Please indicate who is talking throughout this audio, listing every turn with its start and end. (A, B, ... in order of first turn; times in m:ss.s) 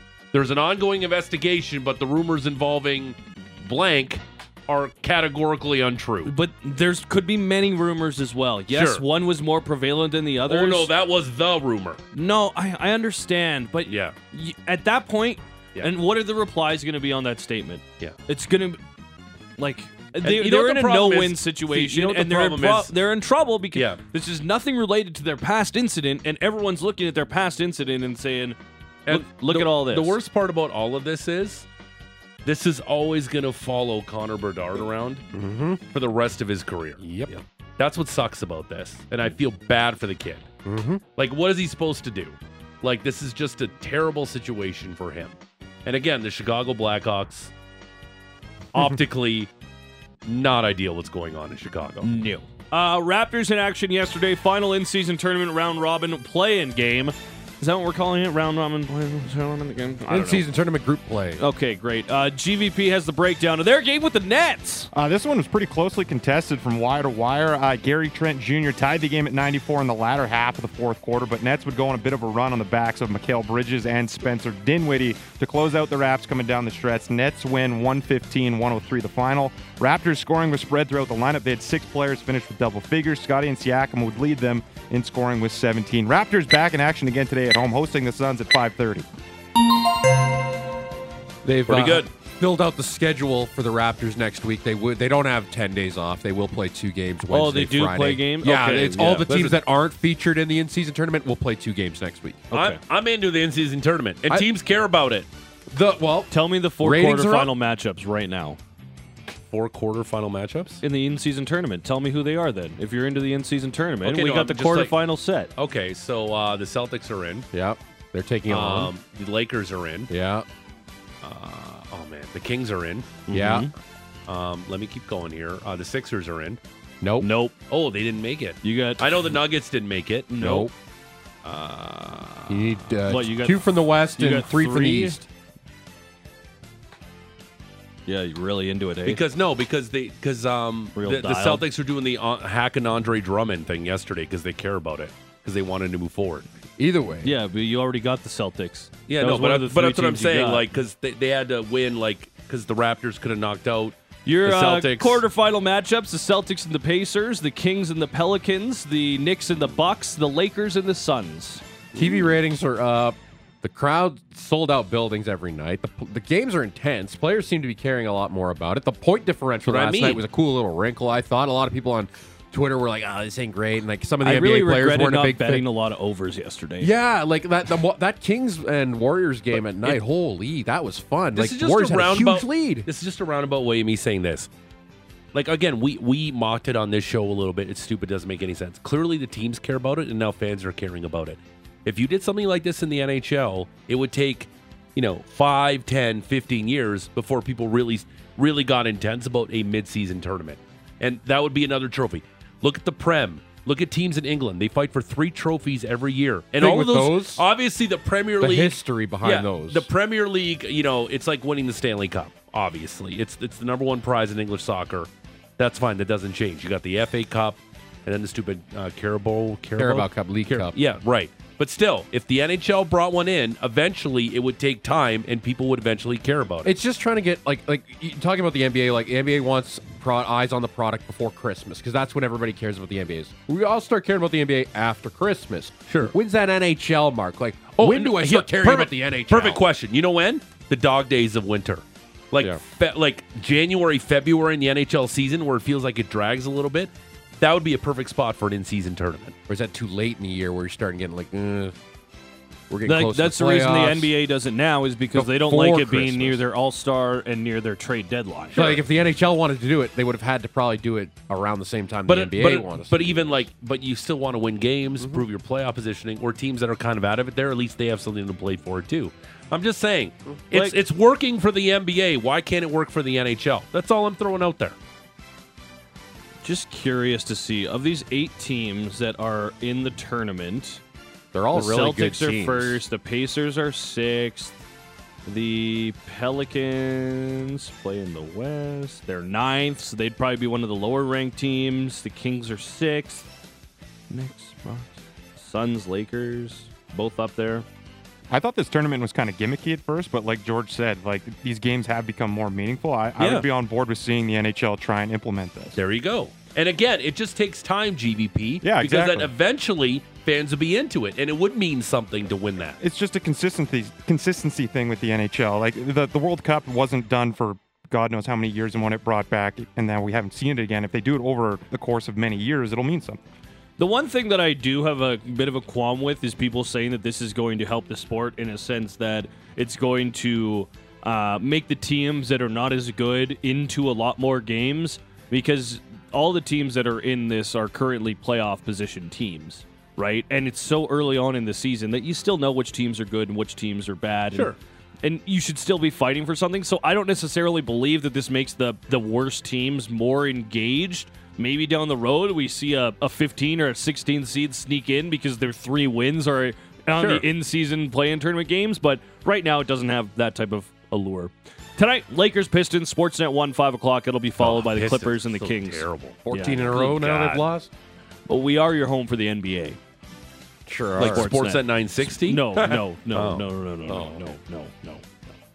0:00.3-0:06.3 A
0:06.2-0:10.9 B
0:08.7-0:09.0 A
0:10.5-0:12.0 A
0:12.1-0:18.8 B
0:13.9-0:14.1 A
0:19.6-0:30.2 B
0:20.2-0:22.9 A
0:23.7-0:24.0 A
0:29.0-0:31.7 A
0:32.4-0:35.2 A
0:35.3-0:35.8 C
0:35.9-0:37.0 A
0:37.0-0:37.3 C
0:37.8-0:40.5 A
0:40.6-0:41.0 C
0:41.2-0:47.5 A
0:48.7-0:49.5 A
0:50.2-0:52.1 A
0:52.0-1:00.4 B
1:00.1-1:01.4 C
1:01.4-1:04.9 B
1:04.9-1:29.0 D
1:31.4-1:42.4 C
1:31.6-1:32.1 A
1:37.3-1:39.3 B
1:39.1-1:39.6 A
1:42.5-1:42.8 B
1:42.5-1:45.3 A
1:45.7-1:47.5 C
1:46.3-1:48.6 B
1:49.5-1:50.8 A
1:50.8-1:55.5 B
1:54.0-1:54.9 A
1:55.6-1:57.5 A
1:57.5-1:58.9 C
1:58.5-2:00.1 A
2:00.1-2:00.4 C
2:01.2-2:03.2 A
2:03.3-2:03.7 B
2:03.3-2:03.7 C
2:04.3-2:06.6 A
2:07.0-2:07.3 C
2:07.2-2:07.5 B
2:07.7-2:10.6 A
2:08.6-2:09.3 B
2:10.3-2:10.7 B
2:10.4-2:10.7 C
2:11.4-2:15.2 B
2:12.5-2:15.2 C
2:18.1-2:19.2 B
2:19.0-2:26.4 A
2:21.0-2:21.6 B
2:26.8-2:27.3 C
2:27.2-2:30.6 B
2:29.1-2:35.2 A
2:34.2-2:41.6 B
2:41.9-2:42.3 A
2:41.9-2:55.6 C
2:49.6-2:50.2 A
2:54.2-2:56.9 B
2:56.8-3:02.9 C
2:59.6-3:00.0 A
3:01.3-3:04.5 A
3:05.3-3:46.8 A
3:26.6-3:27.4 C
3:28.4-3:29.9 C
3:39.8-3:40.7 C
3:46.6-3:59.6 C
3:55.9-3:56.1 A
3:57.8-4:09.3 A
4:09.5-4:11.8 C
4:12.7-4:14.1 C
4:12.8-4:18.6 B
4:15.1-4:16.4 C
4:18.5-4:18.8 A
4:18.5-4:23.4 C
4:22.1-4:34.8 A
4:36.4-4:40.8 B
4:41.3-4:42.8 C
4:41.5-4:44.5 B
4:45.2-4:53.2 B
4:54.1-4:57.6 B
4:58.3-5:05.8 D
5:03.2-5:03.5 A
5:05.8-5:12.8 A
5:08.6-5:09.3 D
5:12.8-5:23.2 D
5:23.8-6:07.3 B
5:44.3-5:44.6 A
5:57.0-5:57.2 A
6:04.4-6:07.4 A
6:06.2-6:07.7 C
6:08.3-6:09.8 B
6:10.6-6:11.3 C
6:11.0-6:13.4 A
6:11.0-6:15.3 B
6:13.9-6:14.4 C